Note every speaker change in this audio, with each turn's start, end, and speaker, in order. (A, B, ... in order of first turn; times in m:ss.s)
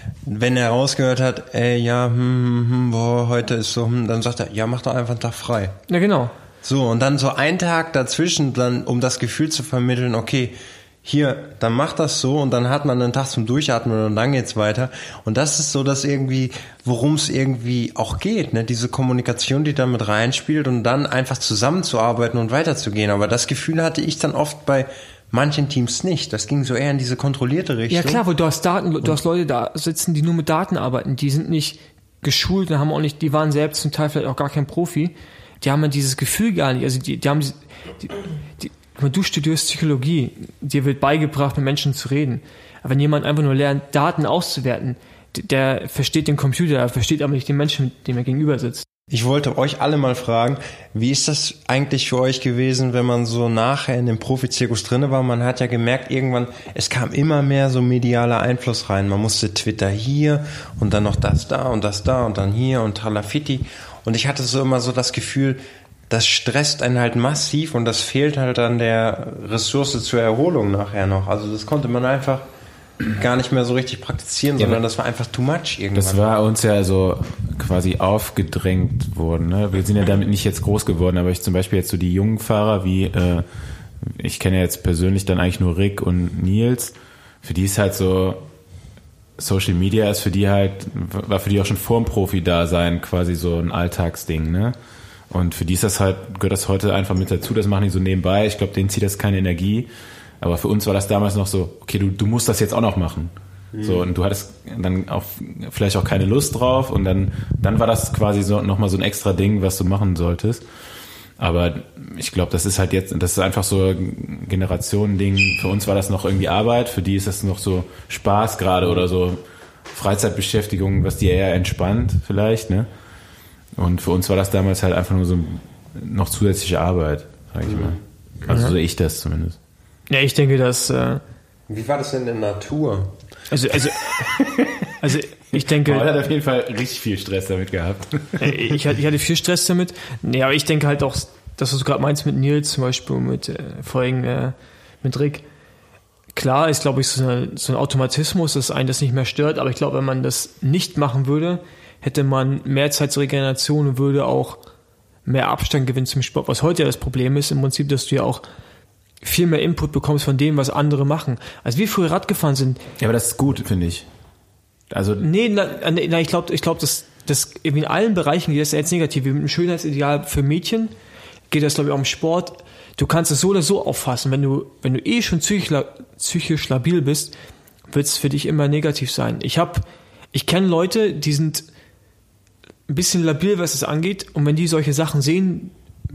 0:00.2-0:05.7 A
0:05.9-0:06.3 B
0:06.6-0:28.2 A
0:27.9-0:48.8 B
0:49.1-1:12.4 A
1:13.1-1:16.4 A
1:15.9-1:23.4 C
1:24.0-1:28.4 C
1:29.4-1:34.7 C
1:35.3-1:39.9 C
1:40.4-1:50.6 C
1:43.7-1:44.1 A
1:51.4-1:59.4 C
1:59.9-2:02.9 C
2:03.8-2:09.6 C
2:07.6-2:08.0 A
2:08.5-2:08.7 B
2:10.1-2:11.2 B
2:11.7-2:13.1 A
2:13.5-2:14.4 B
2:14.4-2:14.7 C
2:15.0-2:16.1 B
2:15.5-2:18.6 C
2:18.4-2:25.4 B
2:26.3-2:34.6 B
2:35.2-2:38.4 B
2:39.2-2:42.8 B
2:43.0-2:44.0 C
2:44.9-2:45.2 C
2:45.2-2:50.9 B
2:51.5-2:57.3 B
2:57.9-3:01.6 B
3:02.9-3:05.7 B